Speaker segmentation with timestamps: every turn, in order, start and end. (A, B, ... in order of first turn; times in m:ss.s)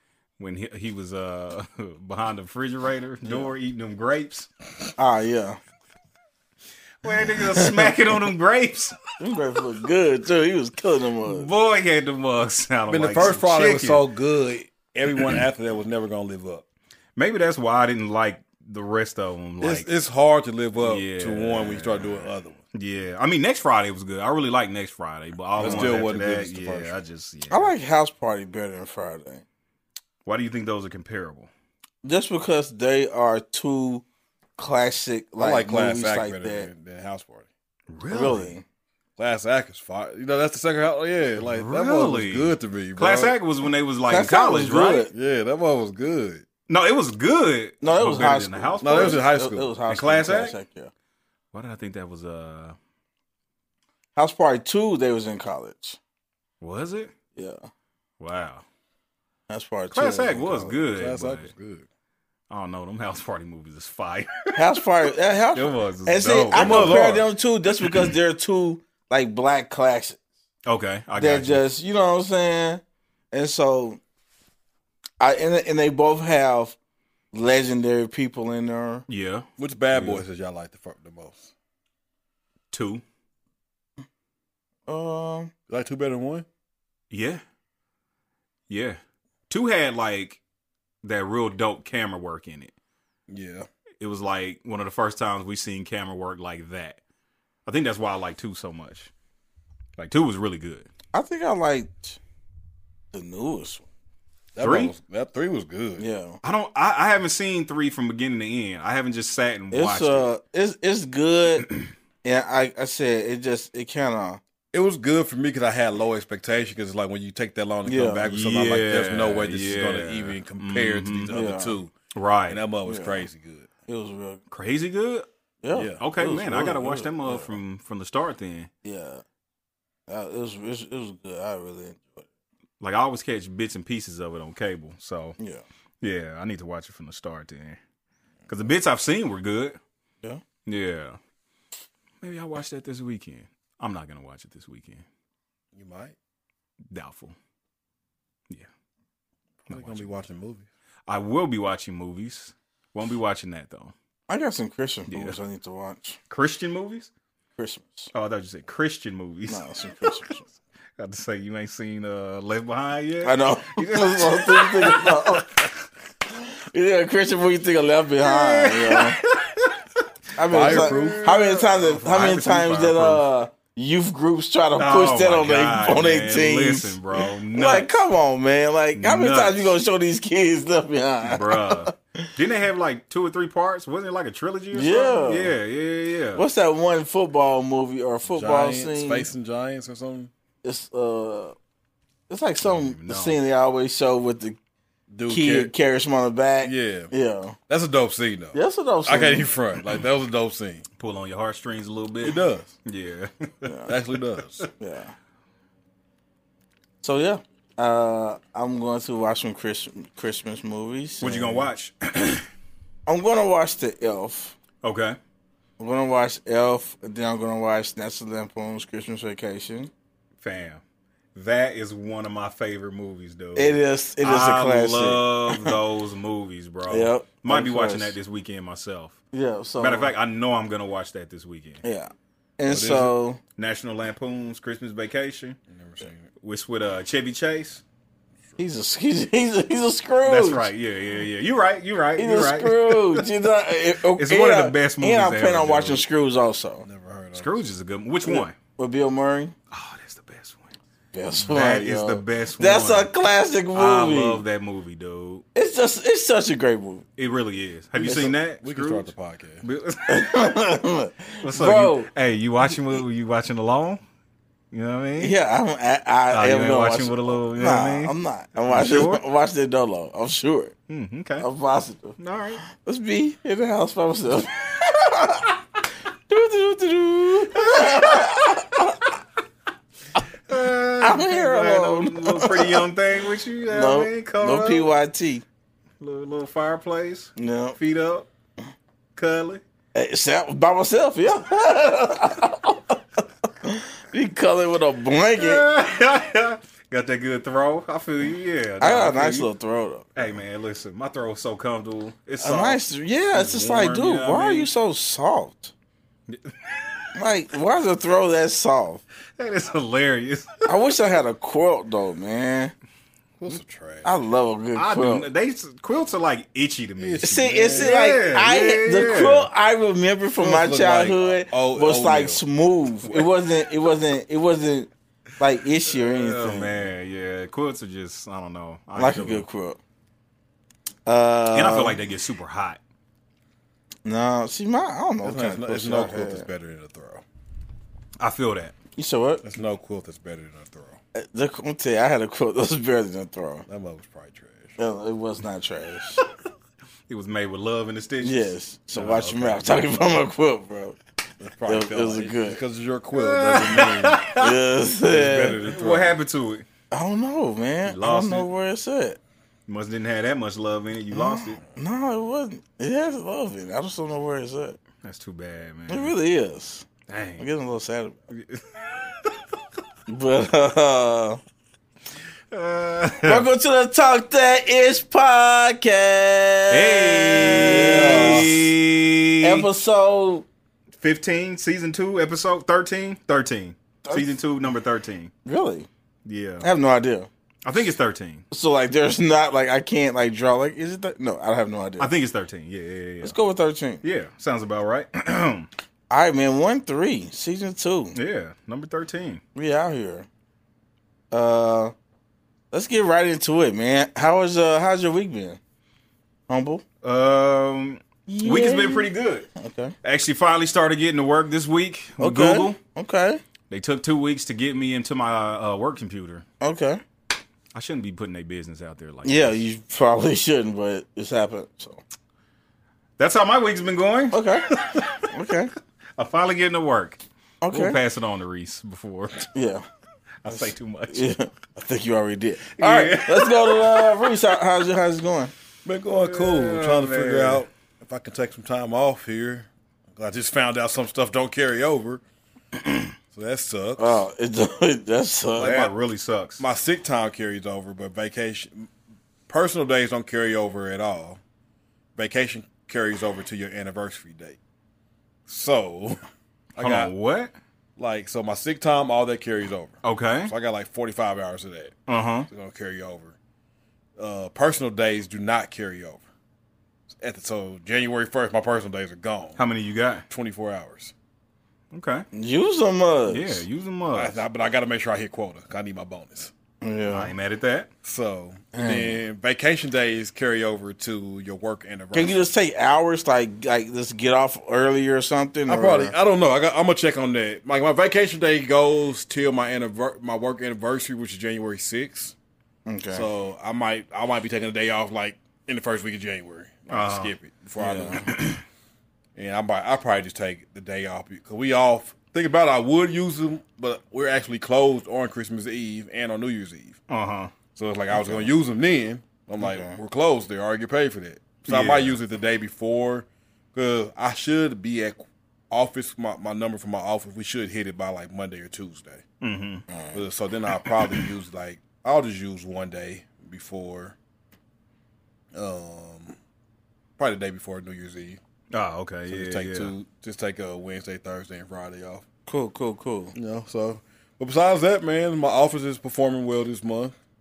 0:00.4-0:04.5 A
0:05.0-0:05.6 B
0:07.0-0:09.0 A
0:07.3-0:08.0 B
0:09.2-0:11.5 B
0:11.2-0:14.0 A
0:12.9-0:16.6 C
0:17.2-0:19.9 A
0:19.6-0:22.6 C
0:20.8-0:27.7 A
0:25.6-0:26.9 C
0:25.6-0:26.1 B
0:27.5-0:29.4 B
0:30.2-0:31.5 A
0:32.0-0:34.0 B
0:34.6-0:36.7 B
0:35.4-0:37.5 C
0:37.9-0:38.5 A
0:38.1-0:38.6 B
0:39.2-0:43.4 C
0:41.4-0:45.1 A
0:44.1-0:45.1 B
0:45.1-0:46.5 C
0:46.7-0:49.2 A
0:47.8-0:50.9 B
0:48.8-0:49.7 C
0:49.9-0:50.6 A
0:51.5-0:52.8 A
0:54.2-0:56.0 B
0:56.6-0:57.1 A
0:57.4-0:57.7 B
0:58.2-0:58.6 A
0:59.5-1:00.7 B
0:59.9-1:01.5 A
1:01.0-1:01.9 C
1:02.5-1:04.6 A
1:04.5-1:10.2 B
1:05.6-1:07.2 A
1:06.5-1:07.2 C
1:07.7-1:08.1 A
1:10.7-1:11.6 A
1:11.2-1:14.0 B
1:15.2-1:16.8 B
1:17.3-1:19.0 B
1:19.1-1:20.2 A
1:19.6-1:21.5 C
1:22.7-1:23.0 A
1:24.9-1:25.5 B
1:25.7-1:26.5 C
1:27.1-1:27.4 A
1:28.7-1:30.4 A
1:31.0-1:32.7 A
1:33.3-1:33.7 C
1:34.0-1:37.0 A
1:37.7-1:39.1 A
1:40.0-1:40.9 A
1:41.1-1:42.2 B
1:43.1-1:43.9 B
1:44.6-1:46.0 C
1:44.6-1:44.9 A
1:46.0-1:46.4 B
1:46.4-1:50.3 A
1:49.7-1:51.7 B
1:52.2-1:54.4 B
1:54.7-2:01.9 C
1:57.9-1:58.2 B
1:58.2-2:01.3 A
2:01.3-2:01.8 B
2:02.2-2:02.6 A
2:02.5-2:03.7 C
2:02.9-2:03.3 B
2:03.9-2:04.4 B
2:04.5-2:05.3 A
2:05.6-2:07.0 B
2:05.7-2:07.6 C
2:06.0-2:08.7 A
2:08.8-2:09.2 B
2:10.1-2:12.3 B
2:12.8-2:15.4 A
2:15.4-2:15.6 B
2:16.0-2:17.8 A
2:18.5-2:19.8 A
2:20.7-2:21.2 A
2:22.2-2:25.0 A
2:25.7-2:26.2 C
2:26.9-2:27.4 A
2:29.7-2:30.1 A
2:29.7-2:30.7 C
2:31.1-2:33.9 A
2:34.3-2:36.2 B
2:35.1-2:35.4 A
2:36.3-2:37.1 A
2:37.6-2:38.1 B
2:38.1-2:40.1 A
2:39.5-2:40.5 B
2:41.0-2:45.7 A
2:43.2-2:45.6 B
2:46.7-2:49.2 B
2:48.2-2:49.8 A
2:50.4-3:02.3 B
2:50.4-2:53.2 A
2:50.5-2:51.3 C
2:52.2-2:52.9 C
2:54.8-2:58.0 A
2:59.0-2:59.8 A
3:01.2-3:06.4 A
3:04.7-3:05.6 B
3:06.4-3:09.3 B
3:08.3-3:10.3 C
3:10.6-3:11.6 B
3:12.3-3:14.6 B
3:12.6-3:13.4 A
3:15.1-3:15.7 C
3:15.3-3:17.6 B
3:16.6-3:17.1 C
3:17.7-3:20.8 C
3:18.5-3:19.5 B
3:21.0-3:23.7 A
3:22.2-3:22.8 C
3:23.6-3:23.9 B
3:23.9-3:24.6 C
3:24.8-3:25.1 B
3:27.0-3:31.7 B
3:31.2-3:32.5 A
3:33.1-3:34.6 B
3:34.8-3:35.2 A
3:35.8-3:39.9 B
3:40.4-3:40.8 A
3:41.4-3:49.2 A
3:43.6-3:45.8 B
3:46.9-3:48.2 B
3:49.3-3:50.1 B
3:49.8-3:51.8 A
3:51.8-3:53.4 B
3:52.7-3:53.1 C
3:53.6-3:55.6 A
3:55.7-3:56.3 C
3:56.4-3:57.8 A
3:58.6-4:00.7 B
4:00.2-4:03.3 A
4:02.2-4:06.9 B
4:04.1-4:06.1 A
4:06.8-4:07.7 C
4:07.4-4:08.6 A
4:08.2-4:09.6 B
4:09.7-4:10.7 A
4:11.1-4:14.4 B
4:11.4-4:13.1 A
4:13.7-4:15.4 A
4:15.6-4:17.1 B
4:17.2-4:20.5 A
4:18.0-4:18.3 B
4:18.0-4:19.6 C
4:20.1-4:22.1 B
4:21.4-4:24.0 A
4:24.7-4:25.4 A
4:25.2-4:30.7 B
4:26.3-4:28.1 A
4:28.7-4:29.2 A
4:30.9-4:31.5 A
4:31.4-4:35.6 B
4:32.2-4:32.6 A
4:36.3-4:39.0 B
4:37.6-4:38.4 A
4:40.5-4:44.9 A
4:41.0-4:42.9 B
4:43.7-4:45.4 B
4:46.0-4:48.3 A
4:47.4-4:47.8 B
4:49.2-4:49.6 A
4:49.9-4:53.0 B
4:53.6-4:55.7 B
4:55.4-4:59.5 A
4:58.8-5:00.1 B
5:00.2-5:04.7 A
5:02.4-5:05.7 B
5:06.3-5:07.1 A
5:07.2-5:09.0 B
5:09.4-5:10.7 A
5:10.7-5:12.7 B
5:13.4-5:14.1 C
5:14.0-5:15.3 B
5:14.8-5:19.5 A
5:17.0-5:18.0 C
5:17.2-5:26.8 B
5:20.4-5:22.4 C
5:25.9-5:29.5 A
5:29.0-5:29.8 B
5:31.1-5:32.0 B
5:31.5-5:32.8 A
5:34.0-5:36.5 B
5:35.2-5:37.2 C
5:38.2-5:38.7 A
5:39.0-5:39.4 B
5:39.4-5:41.0 C
5:41.2-5:43.6 B
5:43.7-5:44.8 C
5:44.8-5:46.2 B
5:47.1-5:49.8 A
5:48.2-5:51.0 B
5:51.4-5:54.2 C
5:51.7-5:52.6 B
5:53.1-5:54.6 A
5:54.4-5:55.6 B
5:55.0-5:56.2 C
5:55.3-5:56.7 A
5:56.9-5:59.2 B
5:57.9-5:58.5 A
5:59.7-6:01.6 A
6:01.1-6:04.8 B
6:05.0-6:06.2 A
6:05.9-6:08.2 B
6:07.1-6:07.5 A
6:08.3-6:09.4 A
6:10.1-6:11.4 B
6:12.5-6:13.5 A
6:13.2-6:18.7 B
6:16.7-6:19.7 A
6:17.6-6:18.6 C
6:19.4-6:20.5 B
6:21.0-6:25.3 A
6:24.0-6:24.3 B
6:25.4-6:25.9 B
6:26.2-6:26.7 A
6:26.6-6:27.3 B
6:27.6-6:28.4 A
6:28.5-6:32.1 B
6:32.0-6:33.4 A
6:33.2-6:34.0 B
6:34.0-6:35.7 A
6:36.1-6:38.2 B
6:38.2-6:39.4 A
6:39.6-6:40.3 B
6:41.3-6:41.9 B
6:42.7-6:45.6 B
6:46.5-6:46.8 B
6:47.0-6:49.5 A
6:48.3-6:50.0 B
6:50.0-6:52.8 A
6:52.2-6:53.4 B
6:53.7-6:56.4 A
6:56.6-6:57.0 B
6:57.7-6:59.6 A
6:59.2-7:02.0 B
7:03.2-7:05.3 A
7:04.3-7:04.7 B
7:05.3-7:05.7 B
7:06.2-7:09.5 A
7:07.6-7:08.0 B
7:09.5-7:09.8 B
7:10.4-7:11.3 A
7:10.5-7:15.5 B
7:12.7-7:14.3 A
7:15.8-7:22.2 C
7:16.2-7:17.6 A
7:23.3-7:24.2 C
7:24.0-7:25.7 B
7:25.6-7:25.9 C
7:25.6-7:26.6 A
7:26.6-7:28.9 C
7:29.5-7:31.4 C
7:32.2-7:34.6 C
7:35.5-7:37.1 C
7:36.8-7:37.5 A
7:38.0-7:42.0 C
7:40.0-7:40.5 A
7:42.1-7:42.5 A
7:42.5-7:43.4 C
7:44.2-7:46.3 C
7:47.1-7:49.6 C
7:49.6-7:50.2 A
7:50.3-7:51.1 C
7:51.9-7:52.2 A
7:52.3-7:53.6 B
7:53.3-7:54.4 A
7:54.1-7:56.5 C
7:56.8-7:57.3 B
7:57.1-7:57.9 A
7:58.0-8:02.4 C
7:58.7-7:59.2 B
8:02.1-8:06.1 B
8:05.7-8:12.4 C
8:12.9-8:13.3 B
8:13.1-8:18.4 C
8:16.9-8:17.3 A
8:17.8-8:18.3 B
8:18.3-8:18.6 A
8:19.4-8:27.0 C
8:27.1-8:27.5 A
8:27.8-8:39.2 C
8:28.1-8:28.5 B
8:29.6-8:30.0 B
8:31.6-8:32.2 A
8:39.4-8:39.8 A
8:39.9-8:40.2 B
8:40.1-8:44.2 C
8:40.8-8:41.3 A
8:45.5-8:46.4 C
8:47.2-8:48.4 C
8:48.7-8:49.9 A
8:49.3-8:52.2 C
8:52.5-8:53.4 B
8:53.4-8:57.1 C